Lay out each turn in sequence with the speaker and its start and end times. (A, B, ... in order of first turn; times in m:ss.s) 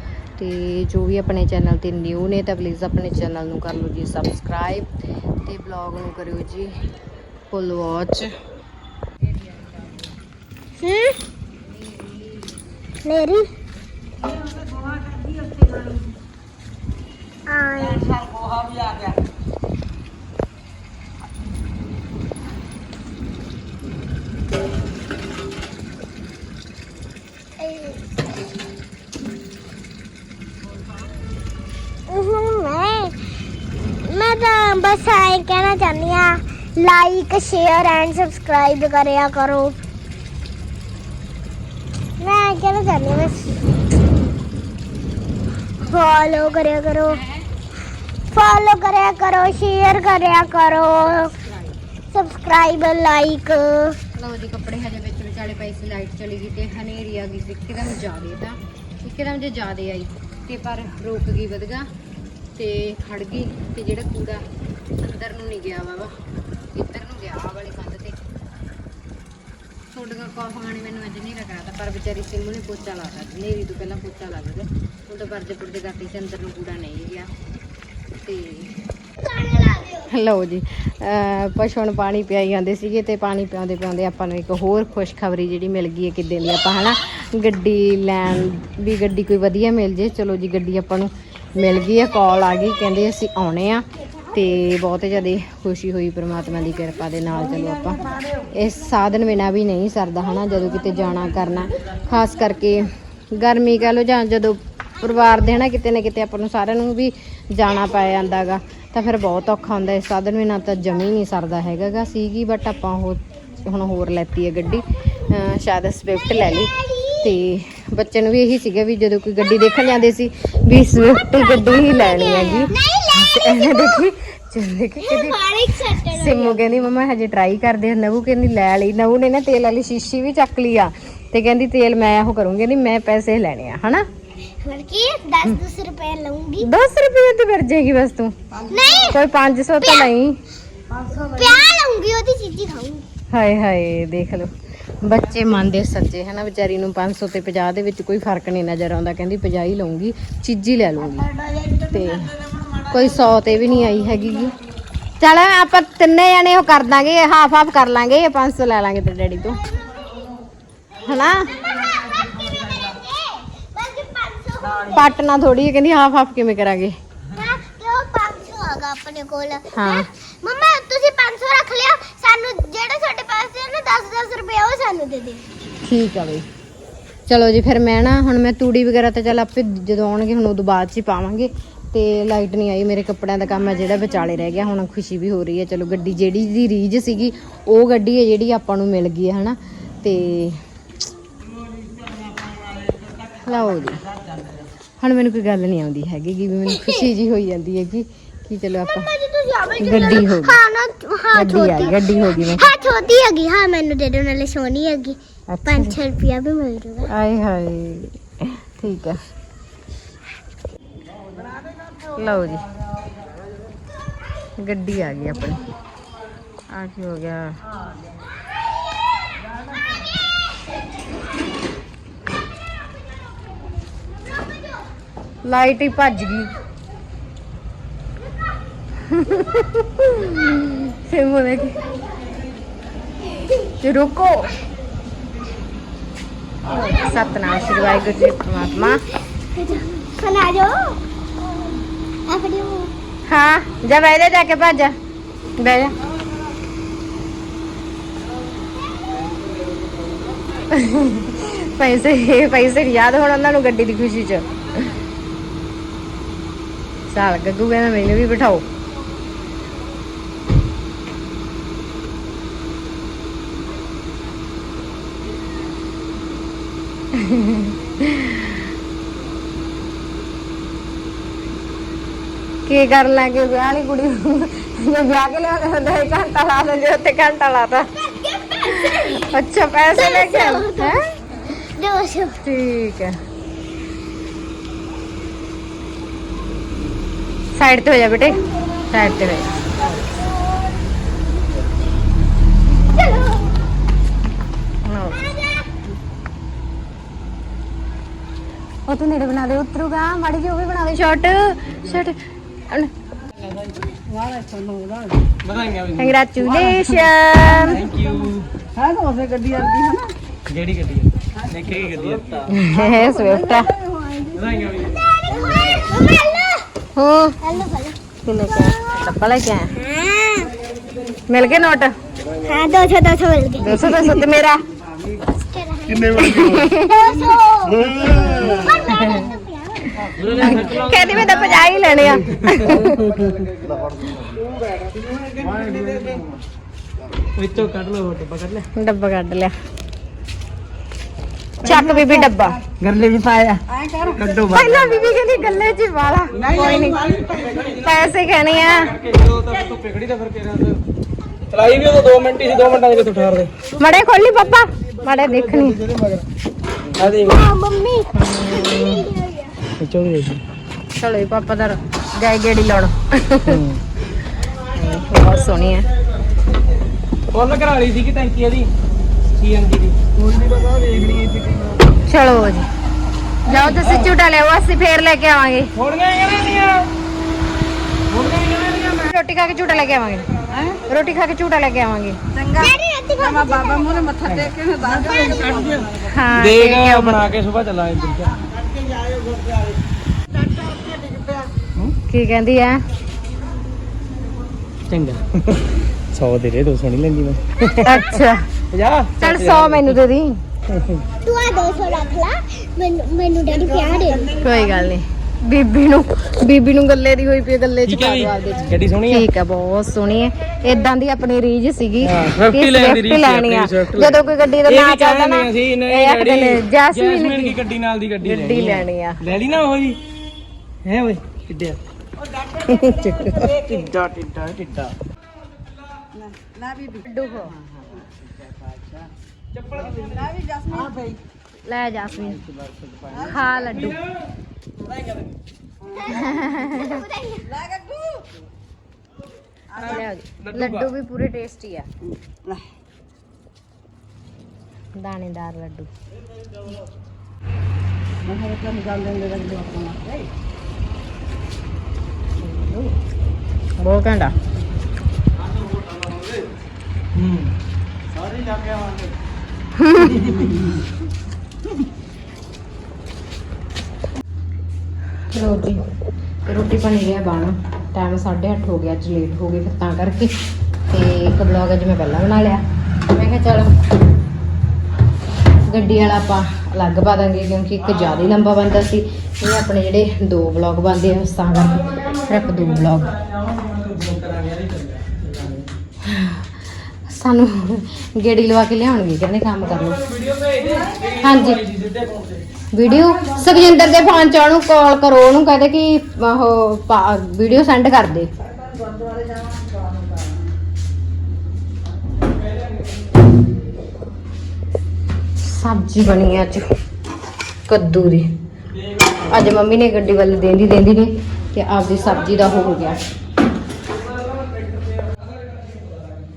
0:00.4-0:04.9 A
0:05.4-0:06.8 A
0:07.5-0:08.3 A
0:09.4-0:10.0 A
0:10.8-0:11.2 B
0:11.7-0:12.5 A
0:13.0-0:13.5 B
0:17.5-0:18.3 B
0:27.6-0:28.0 B
0:32.1-0:33.1 B
0:34.1-0:39.8 B
0:42.2-0:43.6 B
0:45.8-0:47.2 B
0:48.3-0:51.3 B
0:51.2-0:51.7 A
0:52.1-0:54.0 B
0:54.1-1:01.9 A
1:02.6-1:04.4 A
1:05.0-1:06.1 A
1:06.7-1:08.2 A
1:09.9-1:17.3 A
1:18.2-1:18.8 A
1:19.2-1:20.1 B
1:20.1-2:14.0 A
1:56.2-1:57.3 B
2:01.3-2:04.0 B
2:05.0-2:06.6 B
2:14.6-2:16.7 B
2:16.6-2:18.4 A
2:18.7-2:19.2 B
2:19.1-2:20.4 A
2:19.8-2:20.1 B
2:21.2-2:23.0 B
2:23.3-2:24.5 A
2:25.0-2:31.3 A
2:31.8-2:34.5 A
2:35.2-2:39.6 A
2:39.6-2:40.3 B
2:41.0-2:41.6 A
2:41.6-2:45.1 B
2:44.9-2:47.0 A
2:47.3-2:55.4 B
2:49.7-2:50.1 A
2:55.8-2:56.5 A
2:57.3-3:10.6 A
3:13.4-3:14.0 A
3:15.0-3:19.1 A
3:19.0-3:27.1 B
3:19.8-3:20.6 A
3:21.3-3:22.7 A
3:25.5-3:26.0 A
3:27.1-3:29.2 A
3:32.1-3:32.6 A
3:34.6-3:35.6 A
3:36.7-3:37.6 A
3:45.4-3:46.5 A
3:49.0-3:51.8 A
3:53.8-3:54.5 A
3:56.7-3:59.0 A
3:59.5-4:01.0 B
4:02.3-4:02.9 B
4:03.3-4:05.0 A
4:05.6-4:05.9 A
4:10.7-4:14.6 A
4:17.1-4:18.7 A
4:27.2-4:28.5 A
4:32.7-4:37.9 A
4:38.3-4:39.2 B
4:38.6-4:41.1 A
4:39.9-4:41.0 B
4:41.5-4:42.4 B
4:42.4-4:43.2 A
4:47.6-4:48.4 A
4:48.9-4:50.1 A
4:53.0-4:53.4 B
4:54.9-4:55.2 A
4:58.9-5:02.2 A
5:04.2-5:05.0 C
5:05.4-5:06.1 D
5:06.0-5:07.8 A
5:07.7-5:08.5 D
5:08.8-5:10.1 C
5:10.5-5:12.4 D
5:12.5-5:13.7 A
5:14.3-5:15.0 D
5:15.0-5:16.7 B
5:17.0-5:17.4 A
5:17.4-5:18.8 B
5:18.3-5:19.7 A
5:19.7-5:20.5 B
5:21.3-5:22.0 A
5:22.4-5:24.3 B
5:23.6-5:24.6 A
5:25.2-5:30.8 B
5:26.2-5:27.0 A
5:28.7-5:29.2 A
5:30.2-5:31.4 D
5:30.4-5:33.1 A
5:35.7-5:36.0 D
5:37.4-5:38.7 D
5:38.8-5:39.5 A
5:41.6-5:42.6 A
5:41.7-5:42.4 C
5:42.8-5:43.6 D
5:43.8-5:44.4 C
5:44.2-5:44.9 D
5:44.5-5:47.0 A
5:46.4-5:47.3 C
5:47.3-5:47.7 D
5:47.6-5:49.0 A
5:49.0-5:50.8 D
5:51.5-5:53.5 D
5:53.8-5:55.9 A
5:57.0-5:57.5 D
5:57.2-5:59.6 B
5:58.2-5:59.0 A
5:59.8-6:00.4 D
6:01.0-6:03.6 A
6:03.5-6:03.8 D
6:04.6-6:05.9 A
6:07.3-6:08.7 D
6:09.4-6:11.2 D
6:12.0-6:12.7 A
6:13.4-6:15.7 A
6:13.7-6:14.1 D
6:15.8-6:16.9 D
6:18.1-6:19.0 D
6:18.9-6:20.3 A
6:20.9-6:22.2 A
6:22.4-6:22.7 C
6:22.5-6:24.2 B
6:23.6-6:25.9 C
6:24.3-6:24.6 D
6:26.0-6:27.2 A
6:26.3-6:28.4 D
6:32.1-6:32.8 A
6:34.9-6:38.1 D
6:37.8-6:38.5 A
6:38.7-6:40.0 D
6:39.2-6:40.4 A
6:40.7-6:41.0 D
6:41.2-6:44.8 B
6:44.4-6:57.6 A
6:47.9-6:49.2 D
6:52.0-7:00.0 D
6:58.2-6:59.2 A
7:00.8-7:01.8 D
7:02.7-7:03.1 A
7:02.9-7:04.9 D
7:07.0-7:07.7 A
7:10.0-7:10.9 C
7:11.6-7:12.5 A
7:13.1-7:14.0 A
7:16.0-7:17.6 B
7:16.1-7:17.0 A
7:19.8-7:21.9 A
7:19.9-7:20.9 D
7:25.0-7:25.9 A
7:28.2-7:30.2 C
7:32.4-7:32.9 A
7:33.8-7:34.4 A
7:37.2-7:37.5 D
7:39.8-7:40.4 A
7:45.3-7:45.8 A
7:46.4-7:50.4 A
7:50.9-7:53.7 A
7:55.7-8:03.2 A
8:03.6-8:05.7 D
8:06.0-8:10.0 A
8:10.3-8:12.3 D
8:11.2-8:11.6 A
8:12.7-8:18.3 A
8:25.4-8:26.7 A
8:27.7-8:28.3 A
8:29.3-8:33.0 A